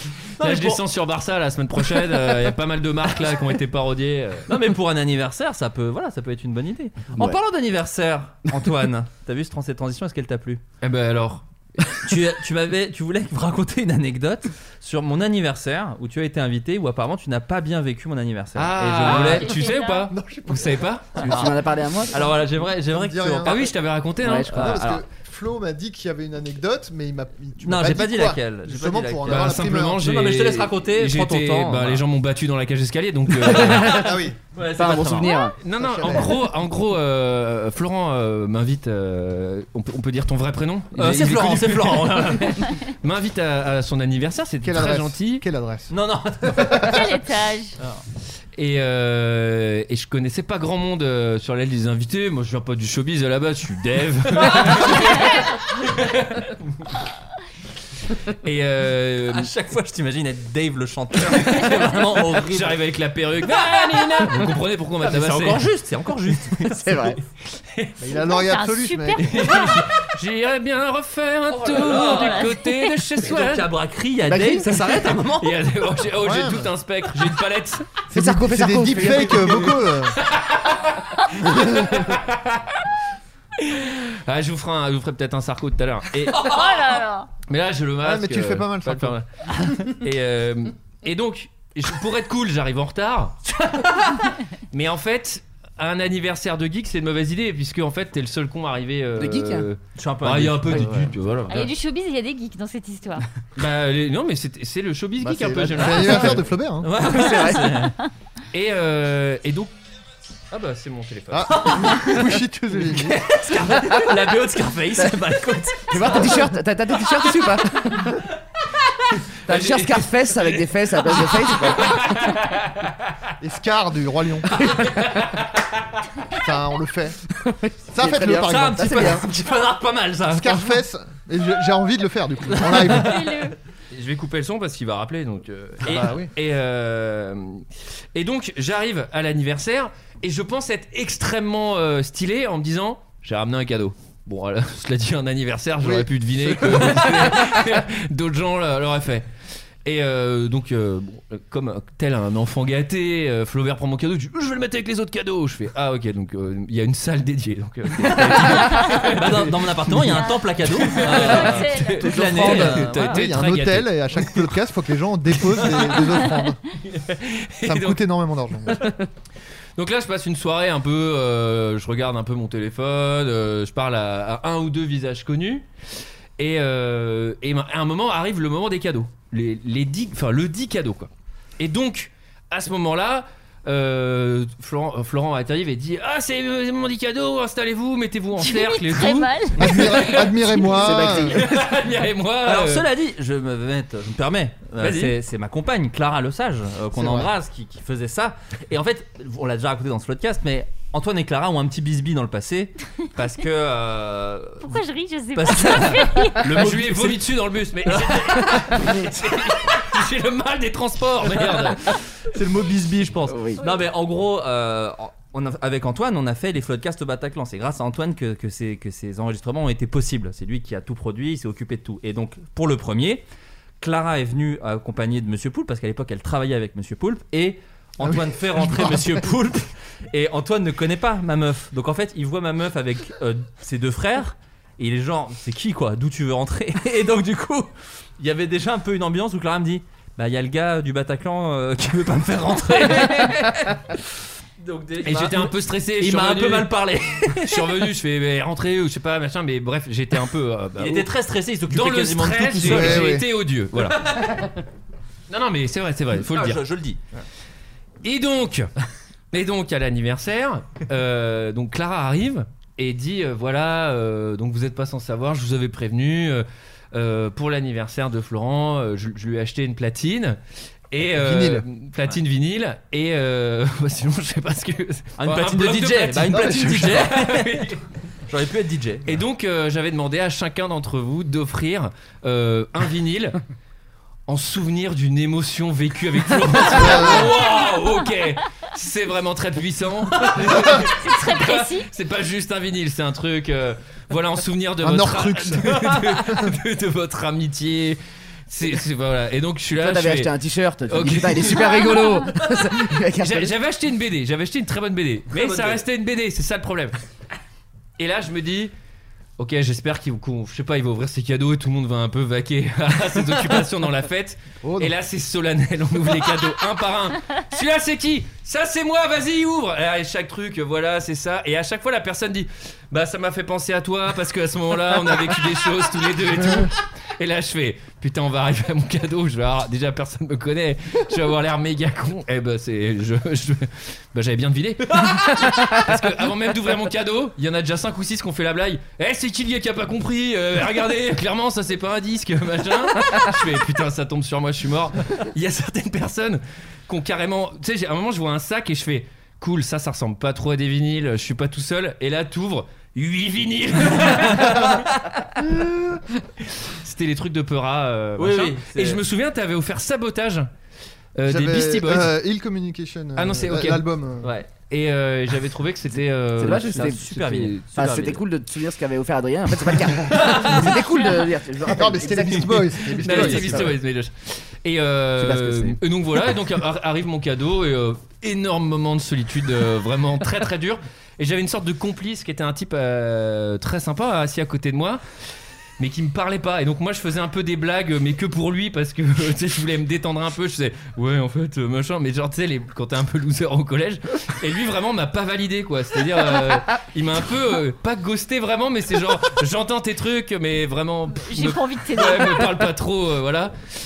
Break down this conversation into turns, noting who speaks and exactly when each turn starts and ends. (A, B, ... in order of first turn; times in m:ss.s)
0:00.4-0:00.8 A
0:00.4-0:04.5 B
0:04.5-0:10.6 A
0:10.8-0:11.9 B
0:12.0-0:19.6 A
0:18.6-0:21.2 B
0:19.1-0:20.1 C
0:20.1-0:20.9 D
0:21.2-0:22.2 E
0:21.2-0:21.6 A
0:22.1-0:23.7 A
0:22.9-0:23.7 D
0:23.4-0:24.8 B
0:24.2-0:24.8 E
0:24.5-0:25.0 A
0:24.5-0:30.0 D
0:27.6-0:32.0 A
0:29.2-0:34.1 B
0:33.5-0:33.9 A
0:33.8-0:34.4 D
0:34.5-0:35.4 A
0:34.8-0:35.6 E
0:35.6-0:45.4 B
0:35.8-0:36.4 D
0:41.0-0:42.7 A
0:44.6-0:47.0 D
0:45.9-0:47.0 A
0:46.8-0:47.8 C
0:48.6-0:56.9 B
0:58.3-0:59.5 B
0:59.3-1:02.8 A
1:01.5-1:01.7 B
1:02.4-1:05.7 B
1:05.0-1:07.2 A
1:06.7-1:07.2 E
1:07.5-1:08.0 B
1:08.0-1:09.5 D
1:08.2-1:09.8 C
1:09.2-1:13.7 B
1:11.5-1:12.5 A
1:12.0-1:13.0 C
1:13.2-1:15.5 A
1:14.3-1:15.1 E
1:15.3-1:18.0 B
1:16.2-1:16.7 D
1:18.1-1:20.2 D
1:18.1-1:19.6 E
1:20.2-1:22.8 B
1:21.5-1:22.0 D
1:23.6-1:26.5 B
1:26.3-1:26.7 A
1:26.4-1:27.3 C
1:27.5-1:33.4 B
1:28.0-1:29.2 D
1:33.6-1:34.2 A
1:34.7-1:41.7 B
1:39.2-1:39.7 E
1:40.0-1:41.1 A
1:41.5-1:43.3 C
1:43.6-1:46.4 B
1:45.2-1:46.9 D
1:46.0-1:46.3 A
1:46.8-1:48.0 A
1:47.0-1:47.9 E
1:48.5-1:49.7 B
1:50.5-1:51.5 B
1:51.3-1:53.2 D
1:51.4-1:56.3 A
1:53.7-1:54.3 E
1:55.9-1:58.2 E
1:59.5-2:02.2 E
1:59.5-2:03.3 B
2:03.4-2:04.5 D
2:04.6-2:05.6 B
2:06.4-2:07.2 D
2:07.4-2:09.2 E
2:07.9-2:09.2 D
2:08.4-2:10.7 A
2:10.3-2:13.4 D
2:12.8-2:13.6 C
2:13.9-2:29.3 B
2:15.8-2:16.3 D
2:25.8-2:27.4 D
2:29.8-2:44.5 B
2:38.1-2:43.2 A
2:40.1-2:42.0 C
2:42.0-2:46.6 D
2:45.4-2:46.3 B
2:46.9-2:48.0 B
2:47.6-2:48.9 D
2:48.7-2:48.9 B
2:49.8-2:55.7 B
2:56.4-3:12.9 B
3:08.4-3:09.9 C
3:09.6-3:11.4 D
3:10.7-3:11.6 E
3:12.4-3:24.8 A
3:14.8-3:15.2 B
3:16.9-3:17.3 D
3:24.6-3:26.4 C
3:25.4-3:27.3 A
3:26.4-3:32.0 B
3:27.8-3:29.0 A
3:32.3-3:43.2 A
3:33.3-3:33.6 E
3:43.8-4:04.0 A
3:48.0-3:49.0 D
4:04.6-4:07.7 A
4:05.0-4:06.7 B
4:07.3-4:11.1 B
4:10.8-4:13.1 A
4:11.7-4:14.4 B
4:12.7-4:13.3 D
4:13.8-4:14.5 A
4:15.3-4:16.6 B
4:16.2-4:17.0 A
4:18.0-4:18.7 B
4:19.3-4:30.4 B
4:30.9-4:37.8 B
4:31.2-4:31.6 D
4:35.2-4:37.6 A
4:36.4-4:36.7 D
4:38.3-4:39.2 A
4:39.1-4:43.4 B
4:44.3-5:00.3 B
4:46.8-4:47.4 D
4:50.8-4:51.9 C
4:54.8-4:56.5 D
4:59.7-5:03.6 E
5:00.9-5:02.5 B
5:01.6-5:02.3 C
5:03.2-5:07.0 B
5:05.3-5:05.8 A
5:08.0-5:08.7 B
5:09.4-5:55.1 B
5:14.6-5:14.9 D
5:55.4-5:56.0 D
5:56.4-6:00.5 B
5:58.2-5:59.0 A
6:01.2-6:02.1 B
6:01.3-6:04.3 D
6:03.2-6:03.8 B
6:04.2-6:04.5 A
6:04.5-6:07.6 B
6:06.4-6:07.0 E
6:06.4-6:08.2 A
6:07.7-6:13.8 E
6:10.2-6:10.6 A
6:11.7-6:13.7 D
6:13.0-6:25.0 B
6:15.2-6:15.8 E
6:25.8-6:43.5 B
6:41.2-6:42.6 C